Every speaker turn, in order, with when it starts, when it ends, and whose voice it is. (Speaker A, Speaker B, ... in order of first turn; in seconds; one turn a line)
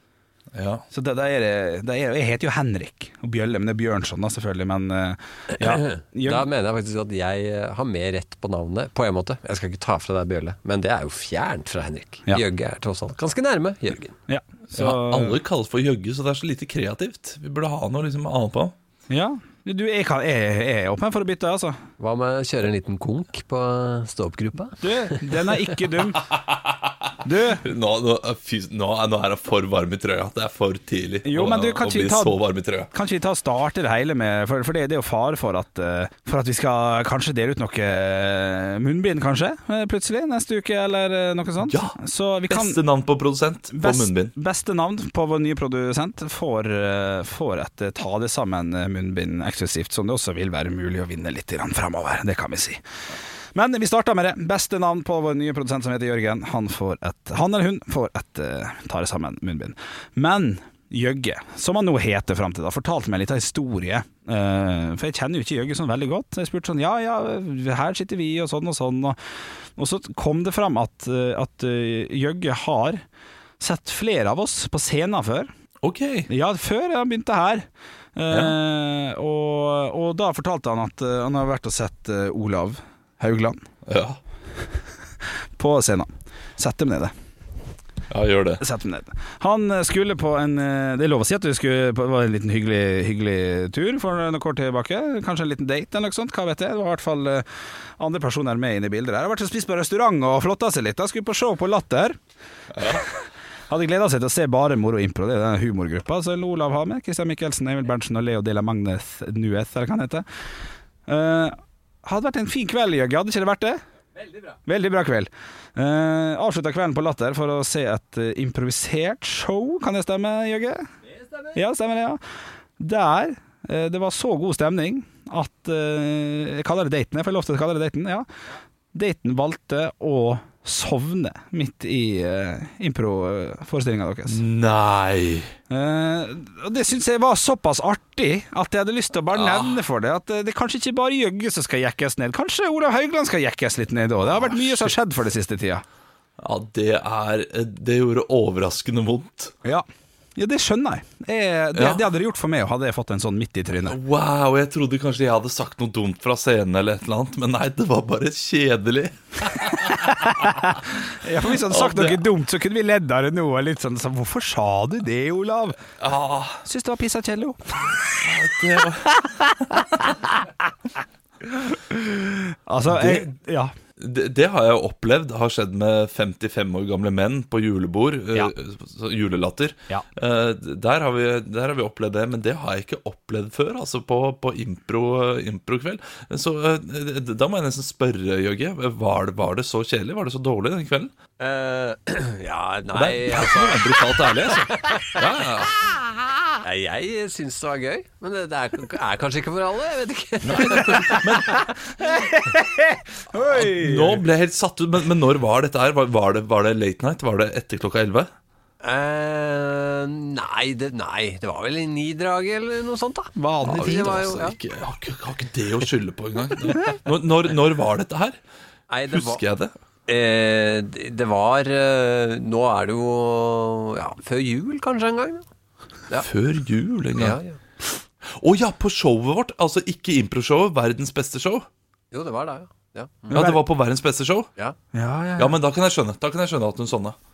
Speaker A: 0.5-0.8
Speaker B: 0.9-6.5
Speaker C: 5.6-14.2
Speaker B: 14.3-15.4
Speaker A: 14.7-18.7
Speaker B: 19.1-21.8
Speaker C: 22.0-25.8
Speaker B: 24.8-26.3
Speaker A: 26.2-32.9
Speaker B: 27.2-27.6
Speaker B: 31.2-32.4
Speaker B: 32.9-42.8
Speaker A: 41.6-42.0
Speaker A: 42.5-44.3
Speaker B: 43.7-52.8
Speaker B: 53.5-69.2
Speaker B: 69.8-73.0
Speaker B: 73.6-75.5
Speaker A: 75.8-76.3
Speaker B: 76.3-83.6
Speaker A: 78.3-78.5
Speaker A: 83.8-84.2
Speaker B: 85.6-87.1
Speaker A: 88.1-88.6
Speaker B: 88.6-97.5
Speaker B: 98.0-102.2
Speaker A: 102.7-103.0
Speaker B: 102.8-103.1
Speaker B: 103.7-110.2
Speaker B: 111.1-113.8
Speaker B: 114.7-120.9
Speaker B: 121.5-122.2
Speaker B: 122.8-128.2
Speaker B: 128.9-134.4
Speaker A: 134.3-135.5
Speaker B: 135.7-145.8
Speaker A: 139.3-139.8
Speaker A: 144.5-144.8
Speaker A: 146.4-149.5
Speaker B: 150.3-154.0
Speaker A: 151.7-152.0
Speaker A: 153.8-160.8
Speaker B: 159.9-165.8
Speaker A: 161.5-162.2
Speaker A: 166.0-166.7
Speaker B: 166.7-167.9
Speaker A: 167.9-170.1
Speaker B: 169.4-170.2
Speaker B: 171.5-173.7
Speaker A: 172.9-173.3
Speaker A: 174.0-191.1
Speaker C: 191.4-195.4
Speaker A: 192.9-195.9
Speaker C: 196.5-202.2
Speaker A: 200.4-201.7
Speaker B: 202.0-204.2
Speaker A: 203.5-208.3
Speaker C: 208.8-214.6
Speaker B: 213.3-214.2
Speaker A: 213.6-218.4
Speaker C: 218.9-219.4
Speaker A: 219.1-219.7
Speaker C: 220.1-225.4
Speaker A: 226.2-227.4
Speaker C: 227.2-227.6
Speaker A: 228.2-231.7
Speaker C: 232.1-233.4
Speaker B: 233.3-233.6
Speaker A: 233.3-234.5
Speaker B: 234.9-235.6
Speaker A: 235.4-237.2